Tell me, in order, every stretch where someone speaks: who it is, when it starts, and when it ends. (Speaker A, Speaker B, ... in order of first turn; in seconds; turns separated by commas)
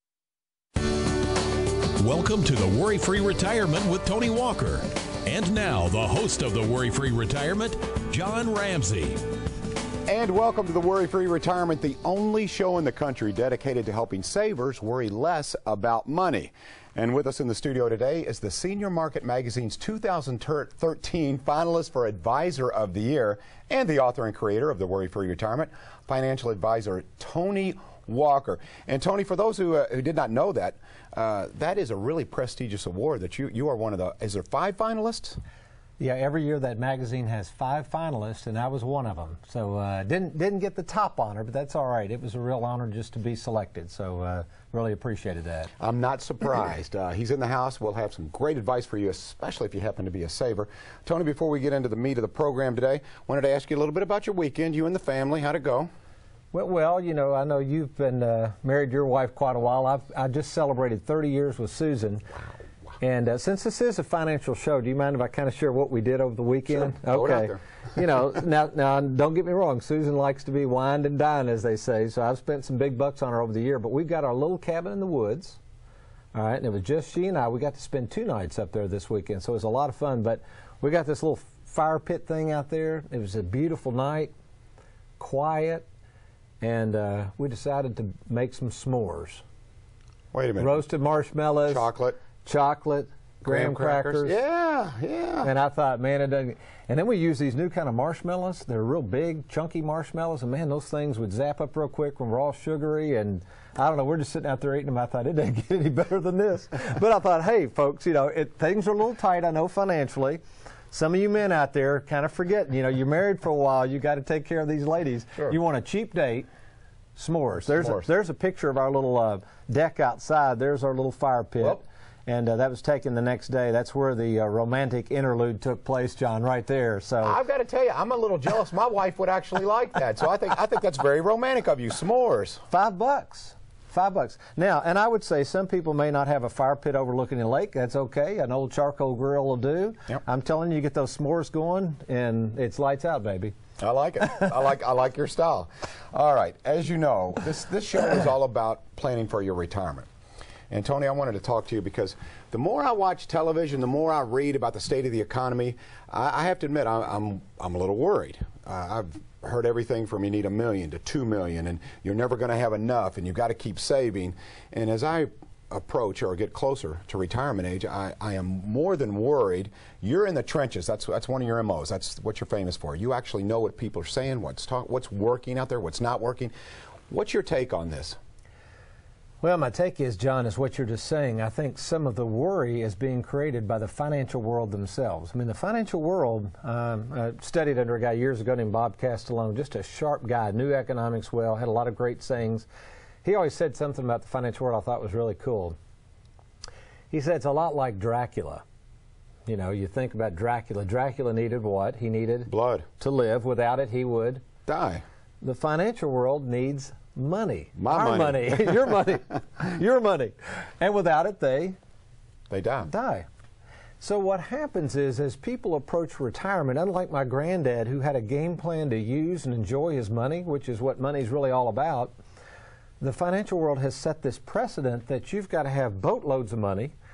Speaker A: 2.0-9.2, Speaker B: 10.1-35.4, Speaker C: 36.0-45.7, Speaker B: 45.8-55.9, Speaker C: 56.5-62.3, Speaker C: 63.0-75.6, Speaker B: 66.7-68.0, Speaker C: 76.3-84.3, Speaker C: 85.2-85.9, Speaker C: 86.6-89.4, Speaker B: 90.3-90.8, Speaker C: 90.6-91.9, Speaker B: 91.7-92.2, Speaker C: 92.4-94.4, Speaker B: 93.5-95.5, Speaker C: 95.4-110.4, Speaker C: 110.9-116.5, Speaker C: 117.2-127.4, Speaker B: 117.7-118.1, Speaker B: 127.2-132.6, Speaker C: 132.7-143.5, Speaker B: 143.8-150.1, Speaker B: 150.7-176.5, Speaker B: 177.1-178.2, Speaker C: 179.4-192.7, Speaker C: 193.2-195.8, Speaker C: 197.1-198.6, Speaker C: 199.5-204.4, Speaker B: 202.5-202.9, Speaker B: 204.7-205.0, Speaker C: 205.4-211.8, Speaker B: 207.8-208.8, Speaker B: 212.5-212.9, Speaker C: 212.9-213.3, Speaker C: 214.0-222.1, Speaker C: 223.0-226.9